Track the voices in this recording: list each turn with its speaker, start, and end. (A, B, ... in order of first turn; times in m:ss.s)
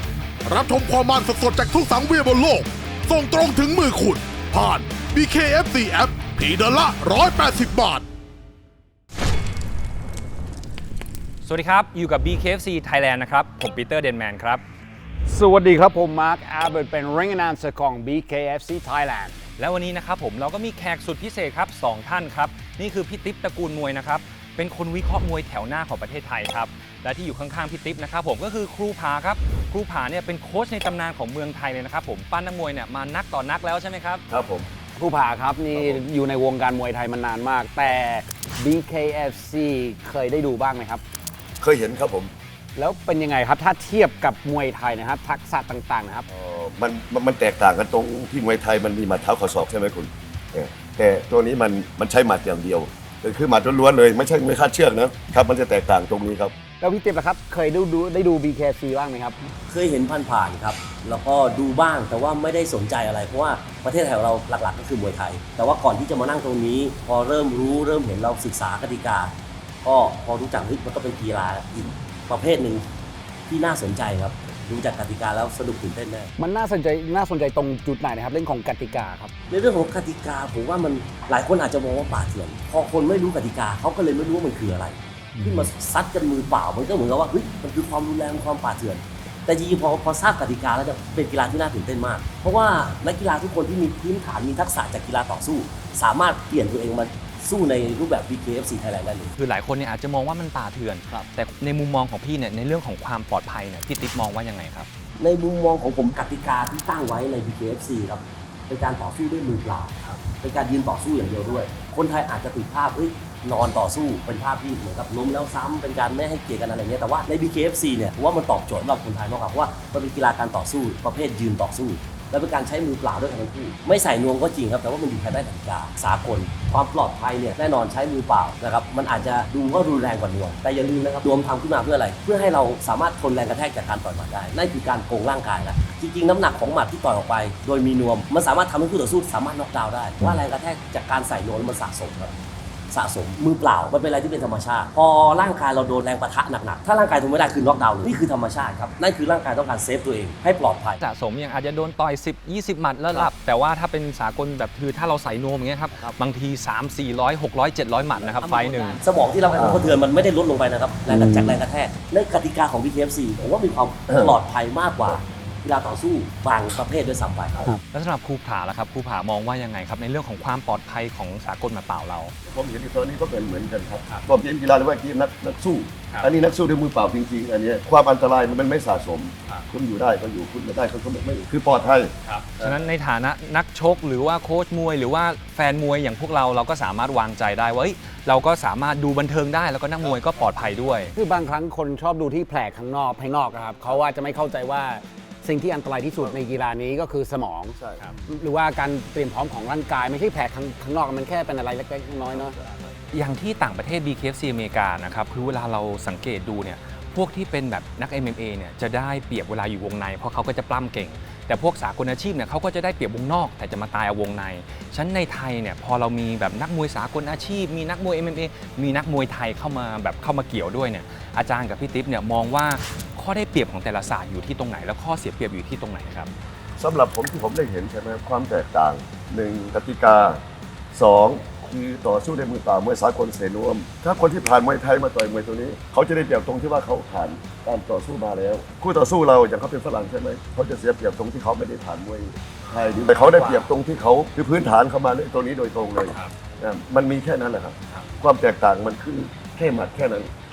0:00.4-0:08.1 A
0:11.4-0:14.6 B
0:15.3-0:19.4 C
0:19.6-0:34.2 B
0:34.3-0:34.7 D
0:35.0-0:41.0 C
0:35.7-0:36.0 D
0:41.6-0:42.3 D
0:42.8-0:46.2 C
0:46.3-0:56.5 D
0:56.8-0:59.4 C
0:59.7-1:12.8 E
1:13.5-1:16.3 E
1:16.4-1:19.3 C
1:19.5-1:39.4 E
1:39.4-1:44.9 B
1:45.2-2:22.3 E
2:22.9-2:31.0 E
2:31.0-2:39.0 B
2:38.3-2:47.7 E
2:39.6-2:39.9 D
2:41.1-2:41.6 C
2:44.1-2:44.4 D
2:47.9-2:52.3 B
2:52.5-3:02.8 D
3:02.2-3:11.1 B
3:11.2-3:22.6 C
3:16.2-3:16.5 D
3:17.8-3:18.1 D
3:22.5-3:22.8 D
3:23.1-3:46.3 B
3:46.8-3:50.4 D
3:50.9-4:10.3 D
4:02.6-4:03.7 B
4:06.0-4:06.3 B